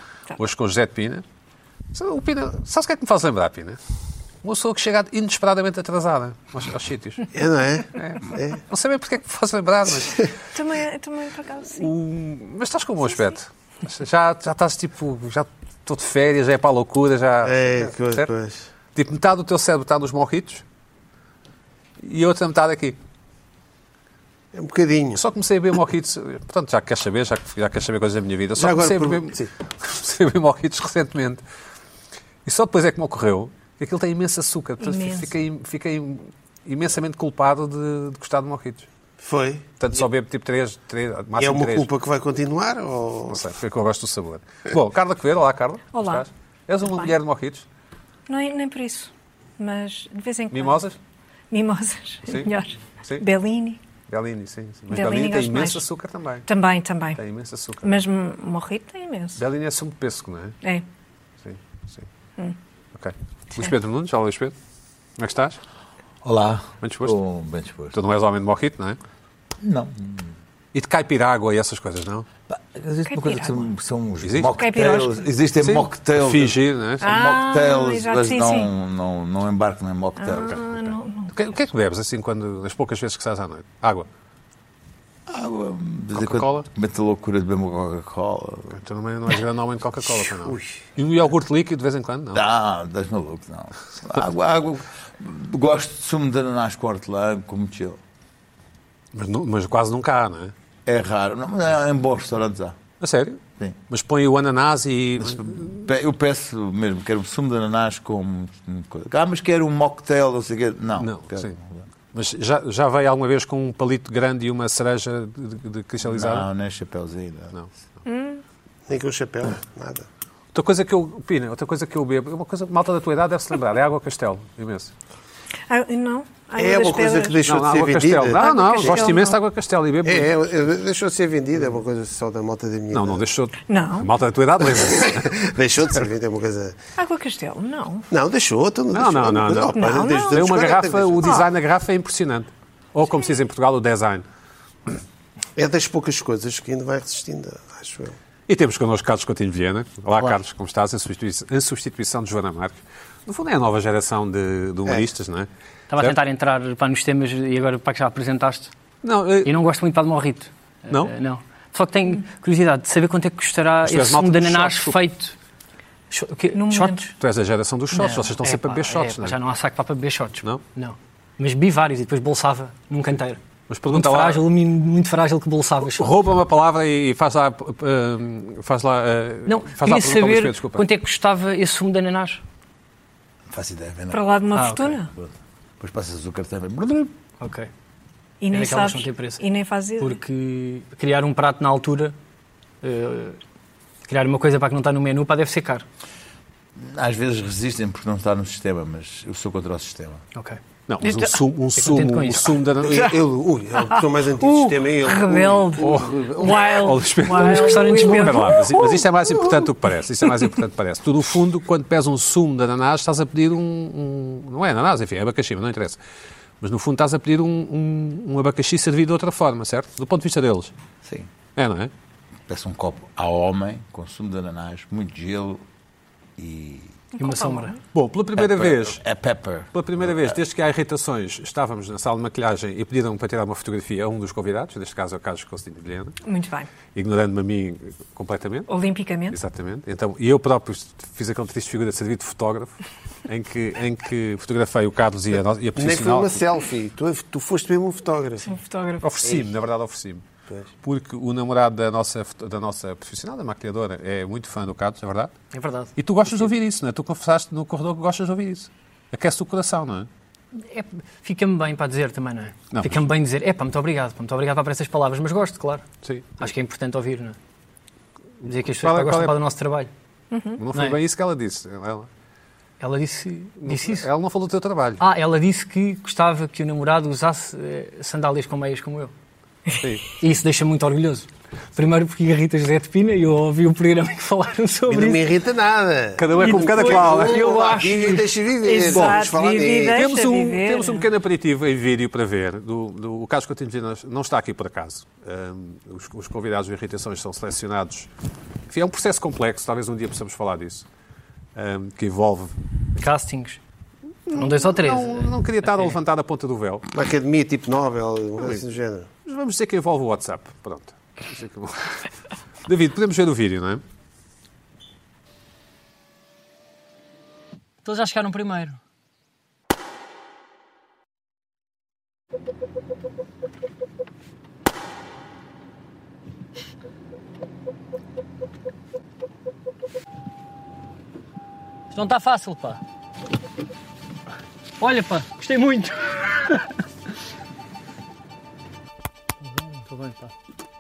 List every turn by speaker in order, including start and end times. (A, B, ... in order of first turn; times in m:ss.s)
0:00.4-0:01.2 A
0:01.9-0:03.8 A
0:04.4-0:07.3 A
0:07.3-0:08.6 B
0:08.0-0:10.3 A
0:10.5-0:11.9 C
0:11.8-0:18.3 A
0:17.4-0:18.7 B
0:19.0-0:20.6 A
0:22.0-0:23.0 A
0:24.5-0:25.2 B
0:25.2-0:31.4 A
0:28.6-0:29.5 B
0:32.4-0:38.9 A
0:34.8-0:35.3 C
0:39.2-0:39.6 B
0:39.8-0:41.9 A
0:41.4-0:43.4 B
0:43.3-0:47.6 A
0:45.9-0:46.3 C
0:46.8-0:47.1 C
0:48.3-0:50.9 C
0:50.5-0:51.0 A
0:51.5-0:53.8 C
0:54.1-0:56.5 A
0:54.9-0:55.9 C
0:56.5-0:57.2 C
0:57.2-0:58.0 A
0:57.8-0:59.4 C
0:59.4-1:00.6 A
1:01.4-1:02.1 A
1:03.0-1:04.6 A
1:05.2-1:05.6 A
1:06.2-1:08.0 D
1:06.8-1:07.2 A
1:07.9-1:09.0 A
1:09.6-1:10.3 D
1:10.7-1:12.3 A
1:12.5-1:20.9 D
1:13.1-1:13.7 C
1:14.2-1:14.5 A
1:14.5-1:15.2 C
1:15.6-1:17.1 A
1:17.0-1:18.7 C
1:20.2-1:21.3 C
1:21.3-1:24.1 A
1:25.3-1:28.7 D
1:26.1-1:26.7 A
1:28.7-1:32.4 A
1:30.5-1:30.7 B
1:32.3-1:38.0 D
1:39.1-1:40.5 A
1:40.9-1:42.8 D
1:43.0-1:45.8 A
1:45.2-1:51.8 D
1:51.0-1:51.6 A
1:52.1-1:56.5 A
1:56.0-1:57.5 D
1:58.0-1:58.4 C
1:58.9-2:00.1 B
2:00.5-2:04.9 A
2:05.7-2:07.4 C
2:06.6-2:09.0 B
2:07.4-2:10.3 A
2:08.3-2:09.4 C
2:10.0-2:13.2 B
2:12.9-2:15.4 A
2:13.7-2:14.1 C
2:14.8-2:16.8 B
2:17.0-2:18.1 C
2:18.1-2:21.4 B
2:18.9-2:24.2 A
2:19.7-2:20.6 C
2:21.2-2:21.5 C
2:25.6-2:28.2 B
2:28.5-2:36.2 A
2:35.9-2:38.7 E
2:39.0-2:39.5 A
2:39.4-2:45.4 E
2:43.8-2:45.0 A
2:46.1-2:47.1 E
2:46.5-2:47.1 C
2:47.2-2:49.4 A
2:47.9-2:56.2 E
2:53.7-2:54.4 A
2:56.0-3:00.9 A
2:59.5-3:02.4 E
3:03.5-3:04.2 D
3:04.1-3:05.1 C
3:04.6-3:04.9 E
3:05.0-3:07.1 D
3:07.4-3:07.7 E
3:08.4-3:10.2 C
3:08.5-3:09.4 E
3:10.0-3:12.2 E
3:12.8-3:13.4 E
3:14.1-3:15.8 E
3:16.8-3:20.2 D
3:20.4-3:20.6 E
3:20.9-3:23.2 A
3:21.0-3:21.4 C
3:21.8-3:22.6 E
3:22.8-3:26.6 B
3:25.0-3:29.0 C
3:25.8-3:36.0 A
3:27.4-3:28.5 E
3:36.6-3:40.7 A
3:41.6-3:41.9 A
3:42.5-3:45.6 D
3:46.4-3:47.0 D
3:47.2-3:47.8 C
3:47.2-3:47.8 E
3:47.9-3:49.0 A
3:48.4-3:50.4 D
3:49.7-3:56.2 A
3:56.2-3:56.7 C
3:57.0-3:58.7 A
3:58.7-3:59.4 C
3:59.3-4:06.4 A
4:05.8-4:08.5 B
4:08.5-4:09.0 C
4:09.0-4:10.2 A
4:09.2-4:09.5 B
4:10.8-4:15.3 A
4:15.5-4:15.9 E
4:16.0-4:20.1 A
4:20.5-4:25.8 E
4:22.7-4:23.0 A
4:26.0-4:26.5 A
4:26.4-4:27.4 E
4:28.4-4:29.4 A
4:28.5-4:29.9 E
4:30.3-4:30.6 C
4:30.6-4:32.1 A
4:32.8-4:34.1 E
4:33.6-4:35.0 A
4:35.0-4:39.1 E
4:39.8-4:40.0 A
4:40.2-4:45.2 E
4:44.9-4:50.0 B
4:46.2-4:47.5 A
4:46.4-4:48.3 E
4:48.6-4:51.0 C
4:48.9-4:49.2 A
4:49.9-4:58.1 A
4:58.7-5:00.8 A
5:01.6-5:02.6 A
5:03.0-5:03.6 E
5:04.3-5:06.9 A
5:04.3-5:06.0 E
5:06.9-5:09.1 B
5:09.3-5:12.1 A
5:12.7-5:13.8 A
5:17.8-5:18.8 E
5:31.9-5:32.8 E
5:34.8-5:36.7 E
5:39.5-5:40.3 E